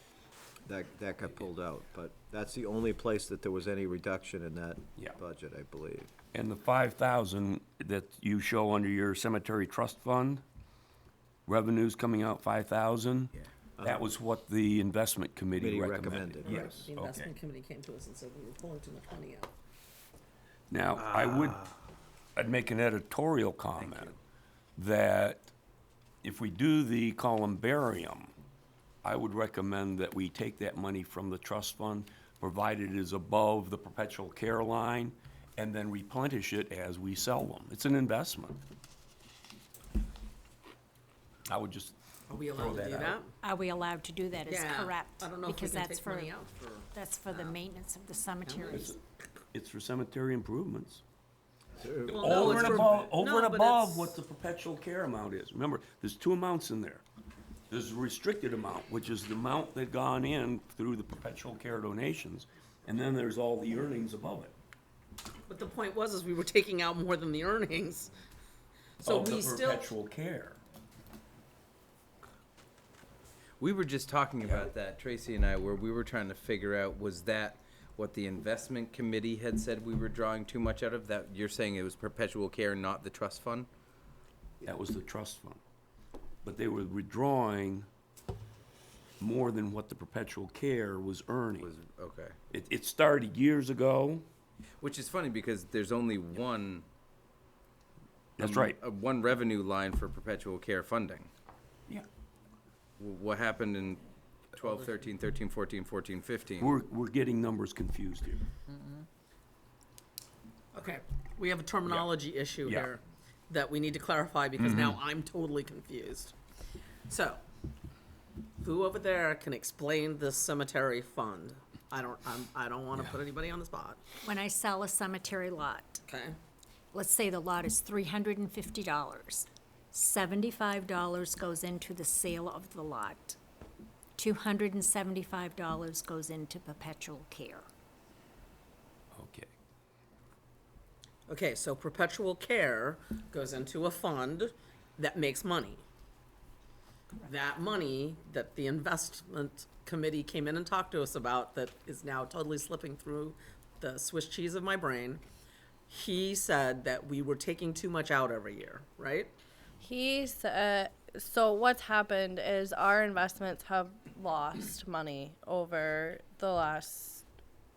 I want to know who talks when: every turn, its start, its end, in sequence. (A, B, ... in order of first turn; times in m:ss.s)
0:00.7-0:06.1 A
0:06.3-0:10.4 B
0:11.5-0:17.3 B
0:13.8-0:14.1 A
0:15.6-0:16.9 A
0:16.5-0:19.5 C
0:20.7-0:21.6 B
0:22.4-0:24.2 B
0:24.8-0:25.5 B
0:26.2-0:28.3 B
0:29.0-0:38.6 B
0:41.5-0:42.0 B
0:42.3-0:43.3 C
0:42.5-0:43.2 B
0:43.4-0:46.3 D
0:44.5-0:47.6 C
0:46.9-0:49.0 D
0:48.4-0:48.7 C
0:48.7-0:49.0 B
0:49.5-0:51.0 B
0:51.8-0:52.9 A
0:52.0-0:57.0 B
0:52.1-0:54.2 C
0:57.7-1:04.6 B
1:05.5-1:08.1 C
1:09.0-1:10.0 C
1:09.0-1:10.6 B
1:13.6-1:23.7 E
1:14.4-1:14.7 B
1:24.6-1:25.6 B
1:26.4-1:27.9 B
1:29.2-1:31.7 B
1:31.6-1:32.4 E
1:32.5-1:34.2 B
1:34.8-1:36.9 E
1:38.4-1:38.8 B
1:38.4-1:41.3 E
1:43.0-1:44.0 E
1:44.5-1:46.7 E
1:46.6-1:48.4 B
1:50.7-1:56.3 C
1:51.8-1:52.1 B
1:52.6-1:52.9 B
1:54.6-1:55.0 B
1:57.1-1:57.4 C
1:58.6-2:04.2 C
2:04.2-2:06.0 D
2:06.0-2:06.4 C
2:06.9-2:13.4 D
2:14.2-2:17.7 D
2:19.1-2:19.5 B
2:21.3-2:25.8 C
2:27.2-2:35.2 C
2:35.9-2:39.3 C
2:39.8-2:47.2 F